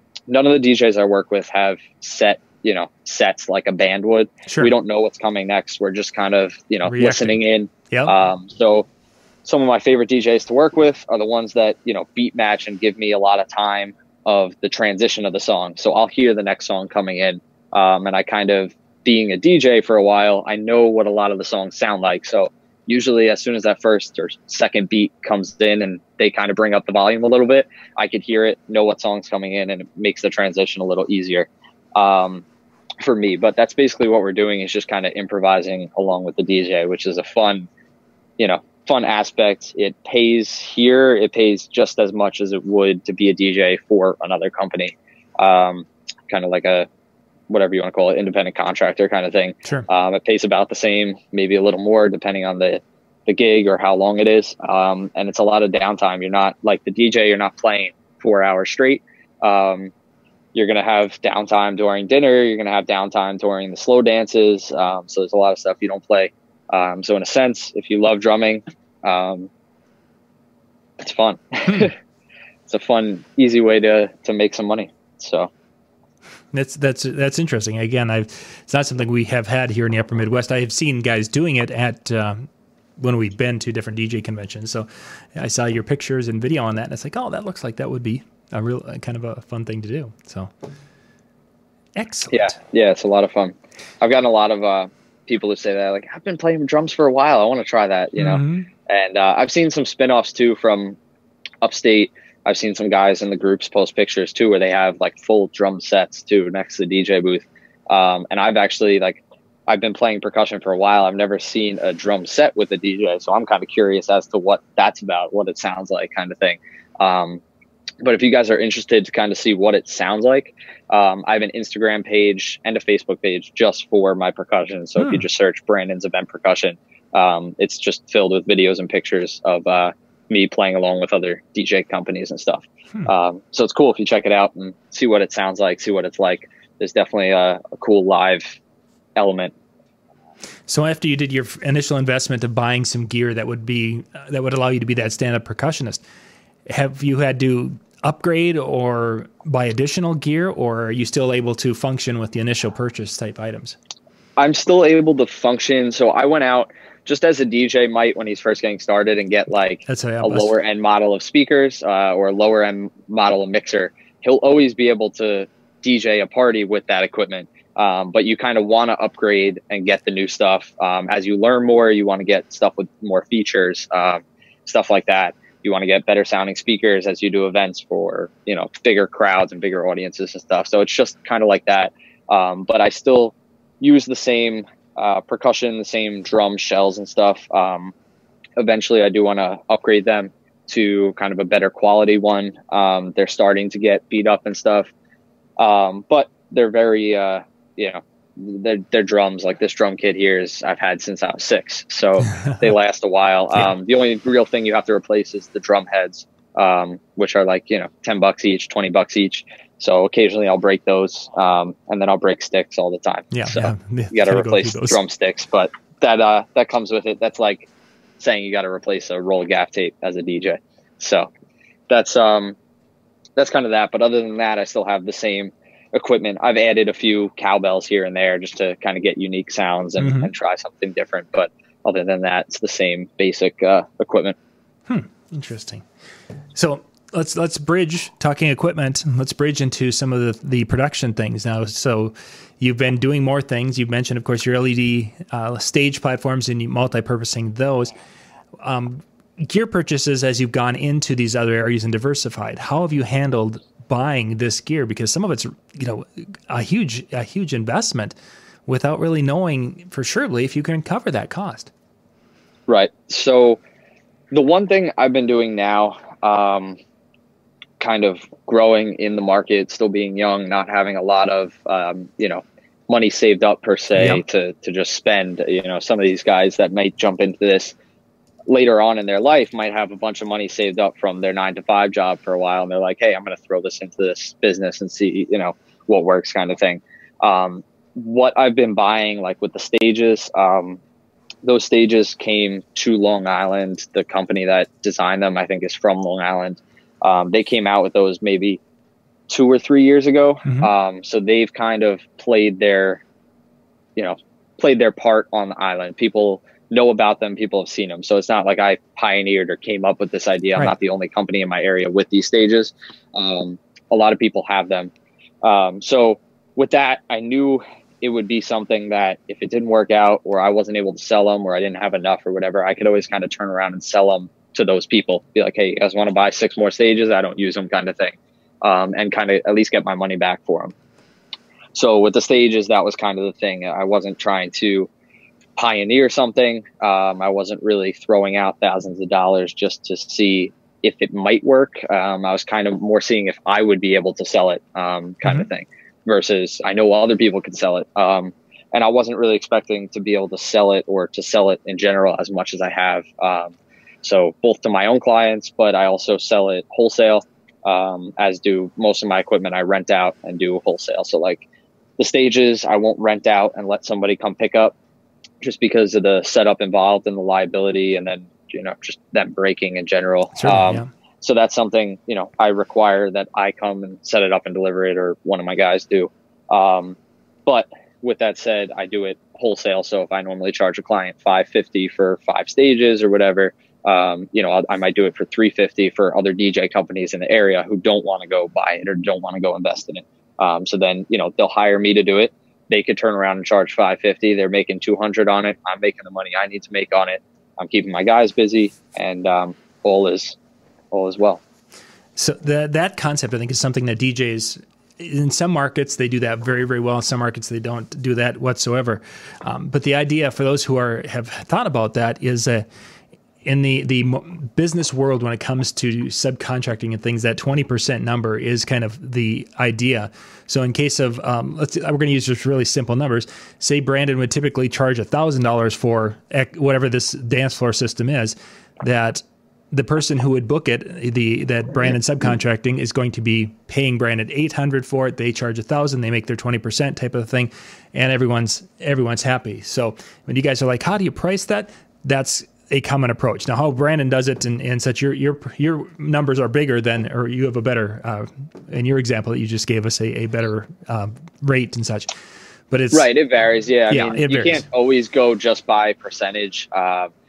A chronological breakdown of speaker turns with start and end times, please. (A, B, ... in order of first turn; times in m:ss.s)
0:00.3-0:08.9 A
0:04.5-0:04.7 B
0:06.8-0:08.1 B
0:09.4-0:32.4 A
0:33.0-0:37.7 A
0:38.4-0:46.9 A
0:47.5-0:59.9 A
1:00.5-1:09.5 A
1:11.0-1:11.9 A
1:12.7-1:15.5 A
1:16.5-1:22.5 B
1:23.0-1:30.5 B
1:32.0-1:32.6 B
1:32.3-1:41.0 A
1:38.2-1:38.7 B
1:41.6-1:57.4 A
1:58.0-2:18.6 A
2:05.0-2:05.2 B
2:19.2-2:19.5 A
2:20.7-2:26.0 B
2:26.7-2:33.8 B
2:34.4-3:07.9 A
2:39.9-2:40.5 B
3:08.6-3:14.9 A
3:15.6-3:41.3 A
3:22.3-3:22.6 B
3:33.3-3:35.0 B
3:41.9-3:42.6 A
3:43.4-3:54.4 A
3:50.0-3:50.3 B
3:54.9-3:55.8 B
3:56.5-4:07.9 B
4:08.6-4:21.7 B
4:22.7-4:23.6 A
4:24.3-4:26.8 A
4:27.8-4:37.7 A
4:34.0-4:34.2 B
4:38.5-4:50.8 A
4:51.4-4:58.6 A
4:59.3-5:03.0 A
5:00.4-5:00.7 B
5:04.0-5:30.7 A
5:31.7-5:34.9 A
5:35.6-6:01.4 A
6:02.0-6:04.7 A
6:05.4-6:40.4 A
6:10.4-6:10.9 B
6:40.9-6:41.4 A
6:42.2-6:52.6 B
6:53.4-7:32.1 B
7:32.7-7:33.1 B
7:32.9-7:37.1 A
7:33.9-7:34.6 B